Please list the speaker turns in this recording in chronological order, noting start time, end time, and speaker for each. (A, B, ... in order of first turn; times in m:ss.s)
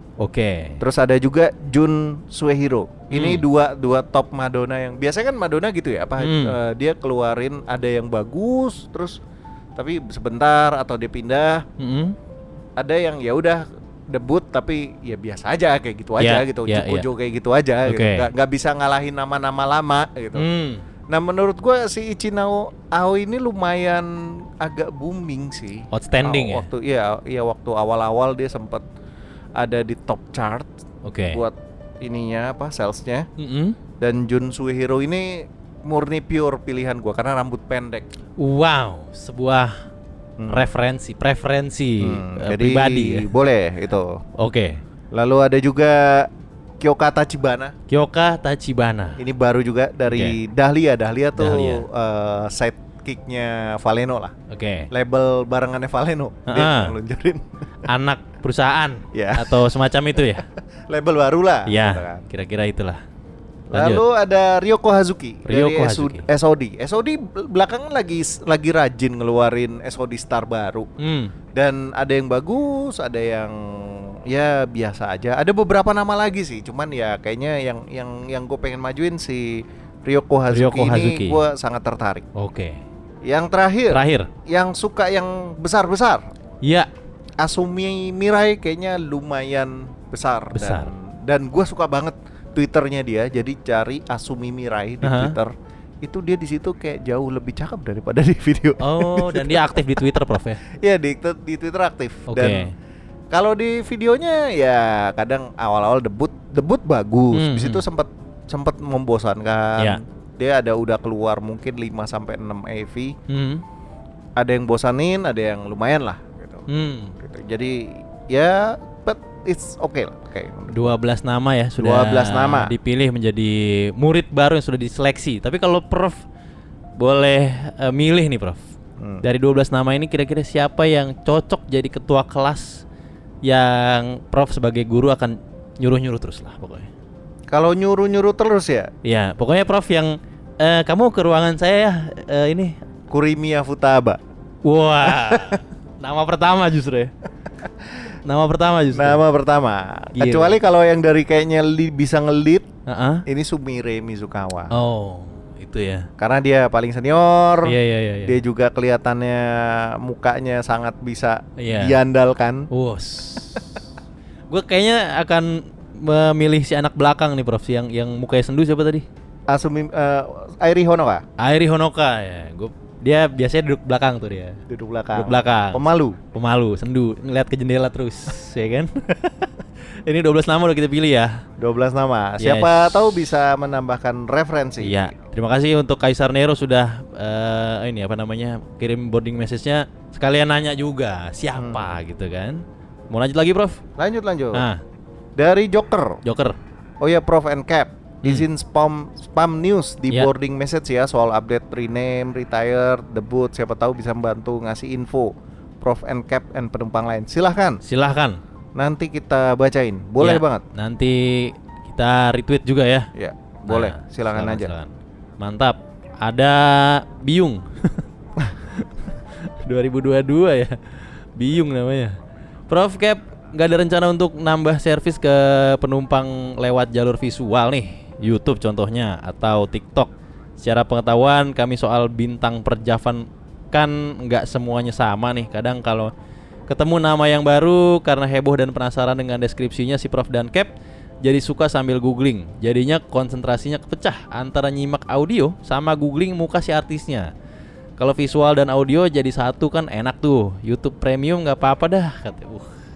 0:00.2-0:00.8 A
0:00.8-0:09.2 B
0:03.1-0:03.4 A
0:06.2-0:06.5 A
0:09.8-0:11.6 B
0:11.8-0:12.2 A
0:12.8-0:20.4 B
0:16.2-0:17.1 A
0:17.8-0:18.3 A
0:20.3-0:20.8 A
0:21.1-0:28.8 B
0:25.9-0:26.7 A
0:29.6-0:30.7 B
0:31.0-0:31.4 A
0:31.3-0:33.3 B
0:33.4-0:33.8 A
0:34.0-0:38.1 B
0:38.4-0:39.8 A
0:40.4-0:40.6 B
0:40.5-0:43.3 A
0:42.0-0:44.2 B
0:44.4-0:44.8 A
0:45.1-0:47.7 B
0:47.9-0:49.2 A
0:49.2-0:54.3 B
0:50.1-0:50.4 A
0:51.4-0:51.8 A
0:54.5-0:54.9 A
0:54.9-0:57.4 B
0:56.4-0:56.9 A
0:57.9-1:00.4 A
0:59.1-0:59.6 B
1:00.4-1:02.2 B
1:01.6-1:03.0 A
1:03.7-1:10.9 B
1:03.7-1:04.0 A
1:05.4-1:06.3 A
1:11.0-1:11.3 A
1:11.5-1:22.2 B
1:20.5-1:21.4 A
1:22.3-1:22.8 A
1:23.2-1:26.2 B
1:23.9-1:24.3 A
1:26.6-1:26.9 A
1:27.4-1:39.8 B
1:30.5-1:30.9 A
1:35.0-1:35.4 A
1:38.8-1:40.6 A
1:40.7-1:42.7 B
1:42.3-1:42.7 A
1:43.3-1:53.2 B
1:47.3-1:47.8 A
1:53.3-1:53.6 A
1:54.4-1:56.6 B
1:56.7-1:57.2 A
1:57.2-2:00.9 B
2:00.7-2:06.2 A
2:01.8-2:02.7 B
2:07.0-2:08.6 A
2:09.0-2:09.2 B
2:09.2-2:12.8 A
2:13.4-2:16.9 A
2:17.5-2:18.9 B
2:19.0-2:22.8 A
2:23.1-2:24.2 B
2:24.6-2:27.1 A
2:25.0-2:25.6 B
2:27.6-2:28.1 B
2:28.2-2:29.2 A
2:28.9-2:32.7 B
2:30.2-2:30.6 A
2:32.8-2:33.2 A
2:33.2-2:34.7 B
2:34.7-2:36.1 A
2:36.2-2:42.7 B
2:37.6-2:38.4 A
2:41.6-2:42.0 A
2:42.7-2:43.8 A
2:44.5-2:49.0 A
2:49.5-2:51.2 B
2:51.4-2:54.6 A
2:54.7-2:56.2 B
2:55.1-2:59.5 A
3:00.0-3:01.4 A
3:01.6-3:05.0 B
3:02.4-3:03.2 A
3:04.8-3:13.8 A
3:11.6-3:11.8 B
3:14.0-3:14.6 B
3:14.5-3:14.8 A
3:15.4-3:16.2 B
3:16.2-3:16.6 A
3:17.0-3:27.8 B
3:27.8-3:28.4 A
3:28.7-3:30.6 B
3:30.2-3:33.1 A
3:33.1-3:34.7 B
3:33.7-3:38.0 A
3:38.5-3:38.9 A
3:39.6-3:40.8 A
3:41.4-3:42.2 A
3:42.7-3:56.1 A
3:56.7-4:07.3 A
4:08.0-4:12.7 A